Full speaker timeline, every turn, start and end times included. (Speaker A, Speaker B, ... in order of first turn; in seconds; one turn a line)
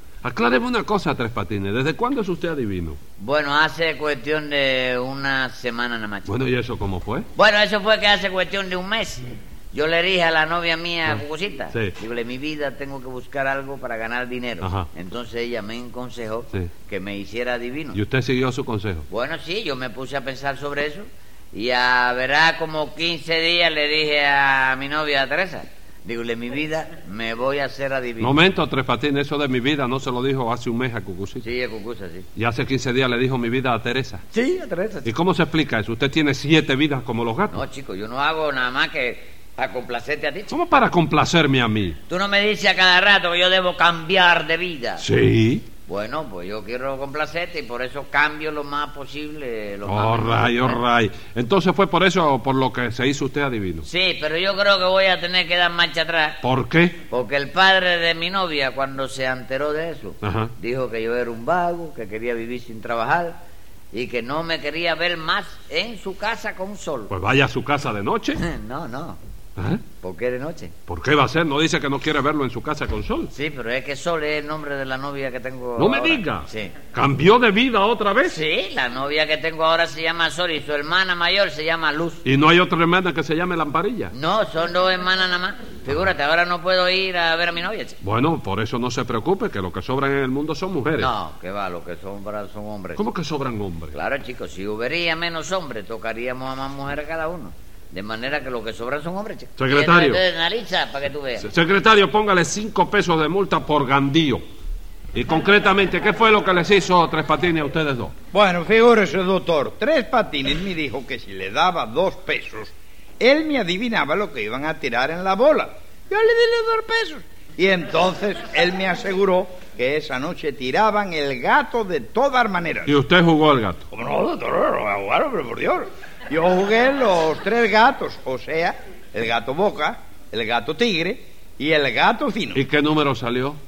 Speaker A: 0.2-3.0
Speaker B: 3.2-6.3
Speaker A: 6.2-7.3
Speaker B: 7.3-18.0
Speaker A: 14.6-14.9
Speaker A: 17.9-19.0
Speaker B: 19.1-28.4
Speaker A: 28.2-31.5
Speaker B: 31.4-32.3
Speaker A: 32.3-34.2
Speaker B: 34.3-35.1
Speaker A: 35.0-37.6
Speaker B: 37.5-40.5
Speaker A: 40.5-42.0
Speaker B: 42.1-45.0
Speaker A: 45.0-45.6
Speaker B: 45.9-50.8
Speaker A: 49.9-53.9
Speaker B: 53.8-56.4
Speaker A: 56.4-57.0
Speaker B: 57.1-63.4
Speaker A: 60.2-60.5
Speaker B: 63.9-67.1
Speaker A: 67.1-68.4
Speaker B: 68.4-69.2
Speaker A: 69.6-69.8
Speaker B: 70.0-70.7
Speaker A: 70.9-73.3
Speaker B: 73.3-76.8
Speaker A: 75.8-78.4
Speaker B: 78.2-82.2
Speaker A: 82.2-84.1
Speaker B: 84.1-88.0
Speaker A: 88.0-91.1
Speaker B: 91.0-93.0
Speaker A: 93.0-93.9
Speaker B: 93.9-101.5
Speaker A: 99.6-100.2
Speaker A: 101.4-104.4
Speaker A: 105.1-108.1
Speaker C: 108.3-123.0
Speaker A: 122.8-123.8
Speaker C: 123.9-132.6
Speaker A: 132.5-133.6